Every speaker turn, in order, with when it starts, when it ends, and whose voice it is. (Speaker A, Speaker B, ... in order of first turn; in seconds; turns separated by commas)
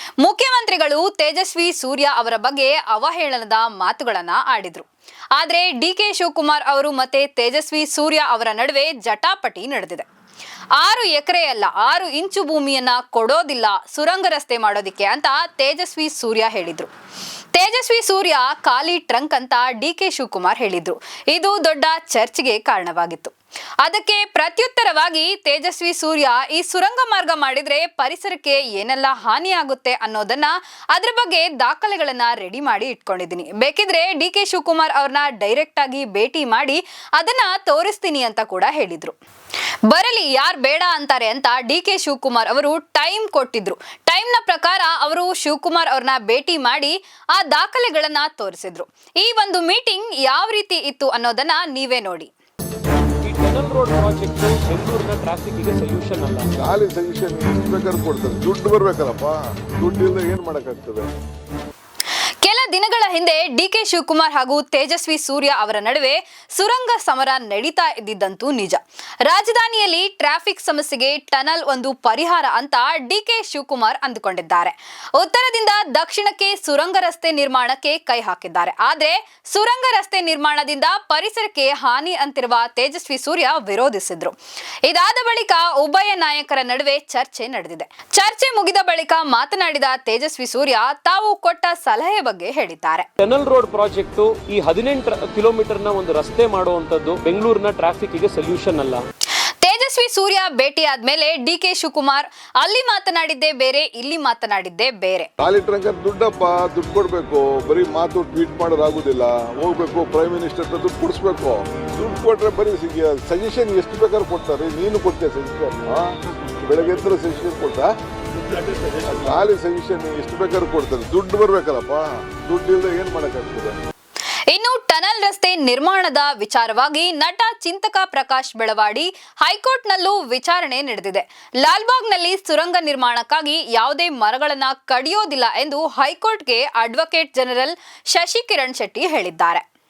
Speaker A: 0.2-10.1, Speaker A: 10.8-16.9, Speaker A: 17.5-39.1, Speaker A: 39.9-52.3, Speaker B: 53.2-56.5, Speaker C: 56.5-61.1, Speaker A: 62.4-93.1, Speaker B: 93.2-99.0, Speaker A: 99.6-105.3, Speaker C: 105.4-117.9, Speaker C: 119.0-123.8, Speaker A: 124.5-139.6